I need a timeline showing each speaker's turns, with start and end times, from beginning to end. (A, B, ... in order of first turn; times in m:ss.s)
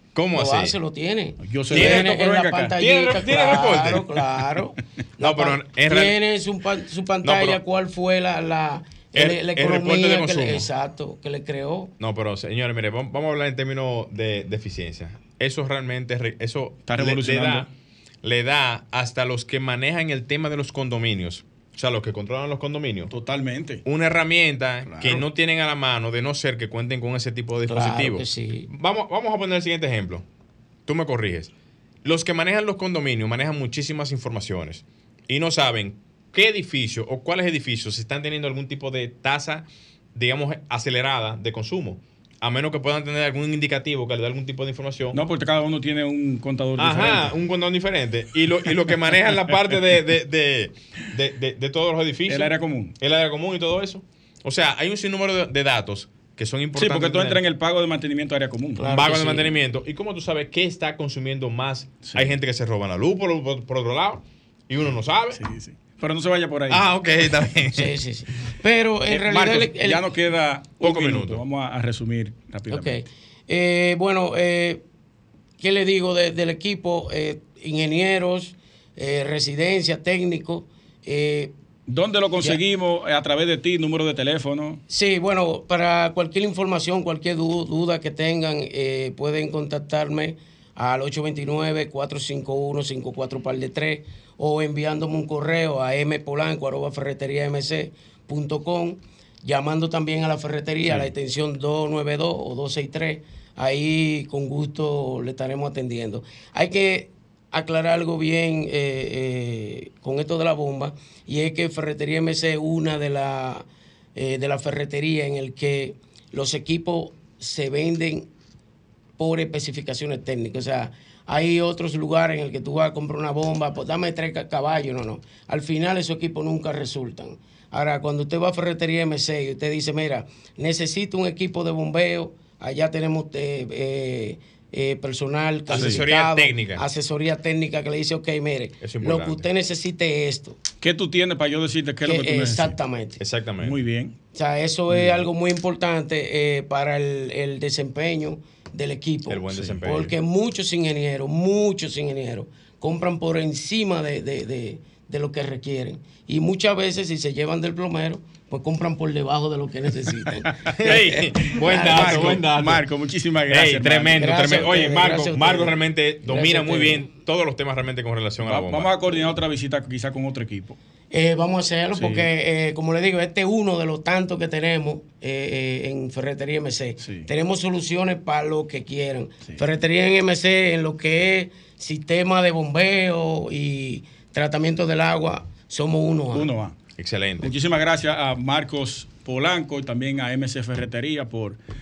0:00.1-0:00.8 A
0:00.3-0:11.9 B
0:01.4-0:02.8 C
0:01.7-0:02.1 A
0:02.8-0:04.1 A
0:05.2-0:06.2 A
0:07.2-0:07.6 A
0:09.1-0:10.7 A
0:12.0-0:17.7 A
0:16.8-0:17.7 C
0:18.2-0:23.1 A
0:23.1-0:23.8 C
0:23.8-0:30.2 A
0:24.8-0:25.3 C
0:27.7-0:28.7 B
0:30.8-0:31.5 A
0:32.0-0:45.2 A
0:45.1-0:47.3 C
0:46.8-0:57.4 A
0:52.3-0:53.0 C
0:56.8-0:58.8 C
0:58.8-0:59.5 B
0:58.8-1:05.4 A
1:02.0-1:02.4 C
1:05.3-1:06.9 C
1:06.7-1:07.9 A
1:07.7-1:10.1 B
1:09.1-1:13.0 C
1:10.8-1:11.4 A
1:12.7-1:14.8 B
1:15.6-1:21.5 B
1:21.9-1:24.8 C
1:24.9-1:58.3 B
1:59.2-2:20.6 B
2:15.7-2:16.8 A
2:15.7-2:16.0 C
2:18.8-2:19.4 A
2:20.8-2:22.8 C
2:22.0-2:23.2 B
2:23.2-2:23.8 A
2:23.6-2:24.2 C
2:24.3-2:42.4 B
2:24.9-2:25.2 C
2:29.3-2:30.2 A
2:40.6-2:42.8 A
2:41.7-2:44.2 C
2:43.5-2:48.9 A
2:44.1-2:47.1 B
2:48.4-2:50.8 C
2:51.1-3:06.5 B
2:52.0-2:52.3 C
2:57.0-2:57.3 C
3:06.3-3:06.8 C
3:07.0-3:07.5 A
3:07.4-3:11.6 C